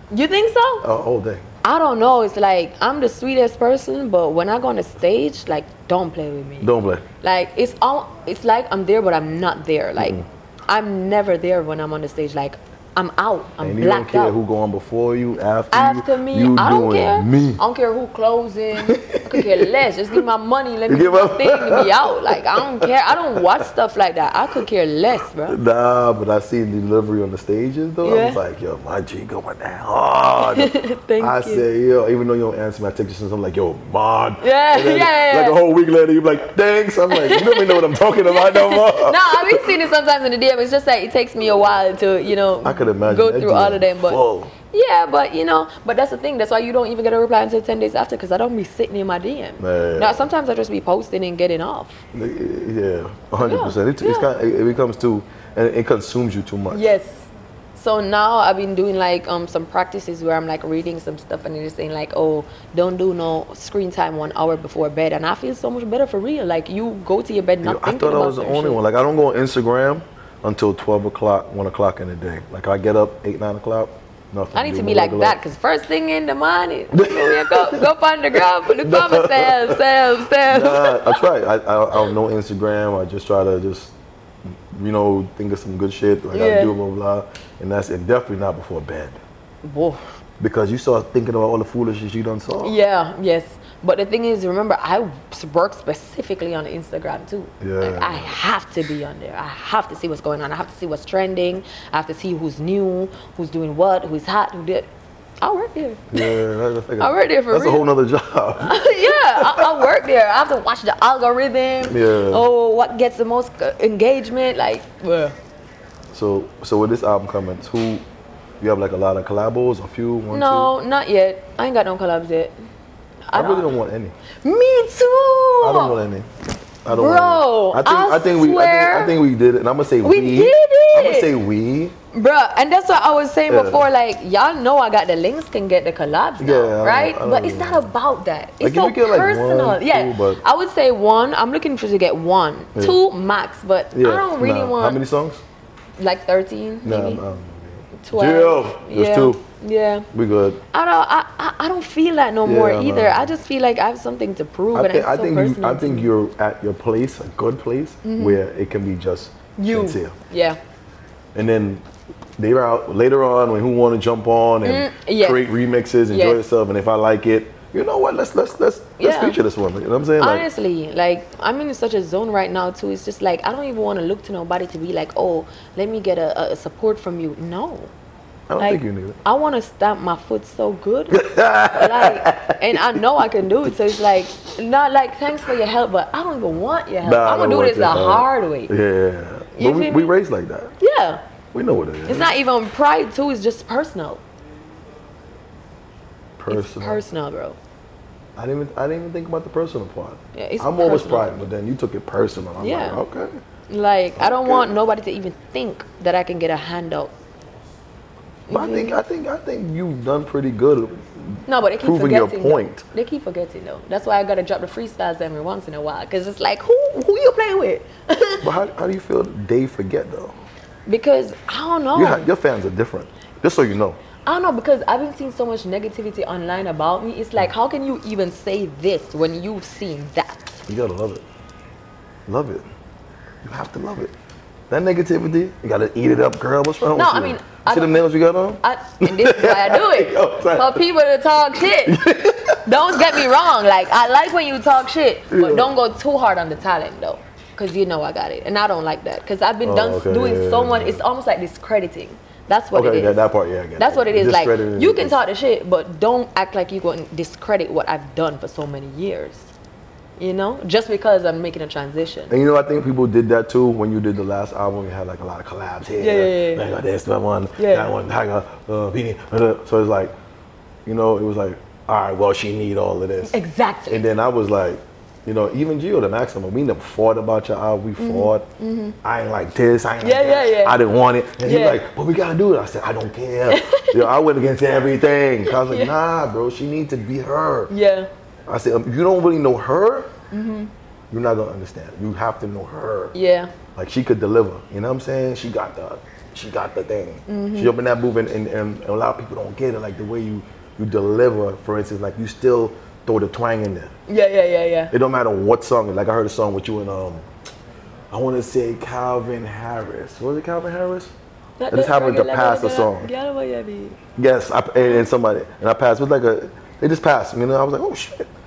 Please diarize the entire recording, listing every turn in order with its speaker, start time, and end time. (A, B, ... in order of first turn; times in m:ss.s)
0:00.1-0:00.8 A
0:00.8-0:01.4 B
0:01.6-0:14.4 A
0:06.6-0:07.0 B
0:10.0-0:10.2 B
0:13.6-0:17.6 B
0:15.7-0:25.6 A
0:18.8-0:19.7 B
0:20.9-0:23.4 B
0:25.5-0:39.7 B
0:28.0-0:28.4 A
0:30.4-0:31.6 A
0:34.4-0:35.6 A
0:37.1-0:44.2 A
0:42.6-0:44.5 B
0:44.7-0:52.0 A
0:49.6-0:50.3 B
0:52.1-0:56.9 B
0:53.4-0:54.3 A
0:56.7-1:08.8 A
1:07.6-1:15.4 B
1:14.5-1:21.2 A
1:16.9-1:19.8 B
1:20.4-1:23.9 B
1:24.5-1:29.2 B
1:26.3-1:26.8 A
1:29.6-1:30.1 A
1:30.4-1:32.8 B
1:32.6-1:44.9 A
1:37.6-1:38.3 B
1:45.4-1:46.4 A
1:46.1-1:49.9 B
1:47.0-1:47.9 A
1:48.6-1:55.4 A
1:51.8-1:52.5 B
1:56.1-1:58.0 B
1:58.6-2:00.7 B
2:00.3-2:02.6 A
2:03.3-2:03.8 A
2:03.3-2:04.2 B
2:04.4-2:06.0 A
2:05.6-2:06.3 B
2:06.8-2:11.9 B
2:06.9-2:09.2 A
2:10.0-2:11.4 A
2:12.1-2:25.0 A
2:13.5-2:13.9 B
2:16.4-2:17.9 B
2:18.6-2:20.4 B
2:23.9-2:25.4 B
2:26.0-2:27.2 A
2:26.8-2:29.4 B
2:27.9-2:30.1 A
2:30.1-2:30.6 B
2:30.7-2:36.1 A
2:32.4-2:33.3 B
2:34.7-2:40.1 B
2:38.0-2:38.4 A
2:39.6-2:40.6 A
2:41.3-2:41.8 B
2:42.4-2:50.5 B
2:44.6-2:45.5 A
2:46.1-2:46.4 A
2:49.0-2:49.4 A
2:50.2-2:57.9 A
2:58.5-2:59.2 B
2:58.6-3:08.7 A
3:01.1-3:03.0 B
3:07.0-3:10.7 B
3:09.6-3:10.1 A
3:10.8-3:11.2 A
3:11.5-3:12.4 B
3:12.0-3:14.2 A
3:16.4-3:17.0 B
3:16.5-3:17.6 A
3:18.4-3:23.4 B
3:20.3-3:21.4 A
3:22.6-3:23.0 A
3:23.7-3:27.1 A
3:24.2-3:24.7 B
3:28.5-3:29.0 A
3:28.5-3:32.8 B
3:31.5-3:38.5 A
3:38.4-3:40.3 B
3:40.9-3:42.3 A
3:41.9-3:44.0 B
3:44.2-3:50.6 A
3:50.7-3:51.2 B
3:52.3-3:52.6 B
3:53.4-3:54.1 B
3:54.7-4:00.8 B
3:56.9-3:58.0 A
3:58.6-4:02.0 A
4:01.6-4:03.3 B
4:02.6-4:13.2 A
4:05.3-4:05.7 B
4:09.6-4:11.0 B
4:12.7-4:15.2 B
4:13.8-4:19.5 A
4:20.2-4:22.3 A
4:22.3-4:30.1 B
4:26.0-4:26.6 A
4:27.6-4:27.9 A
4:30.8-4:33.4 B
4:33.2-4:34.0 A
4:33.9-4:38.4 B
4:38.0-4:39.0 A
4:39.0-4:47.7 B
4:40.0-4:40.8 A
4:41.4-4:41.8 A
4:43.5-4:44.1 A
4:45.4-4:45.9 A
4:47.7-4:48.1 A
4:48.5-4:50.1 B
4:50.3-4:50.7 A
4:51.1-4:53.1 B
4:53.1-4:53.5 A
4:53.8-5:03.9 B
4:57.3-4:57.7 A
5:04.1-5:04.9 A
5:04.9-5:07.2 B
5:08.1-5:11.1 B
5:11.6-5:14.0 A
5:11.7-5:13.1 B
5:14.2-5:18.3 B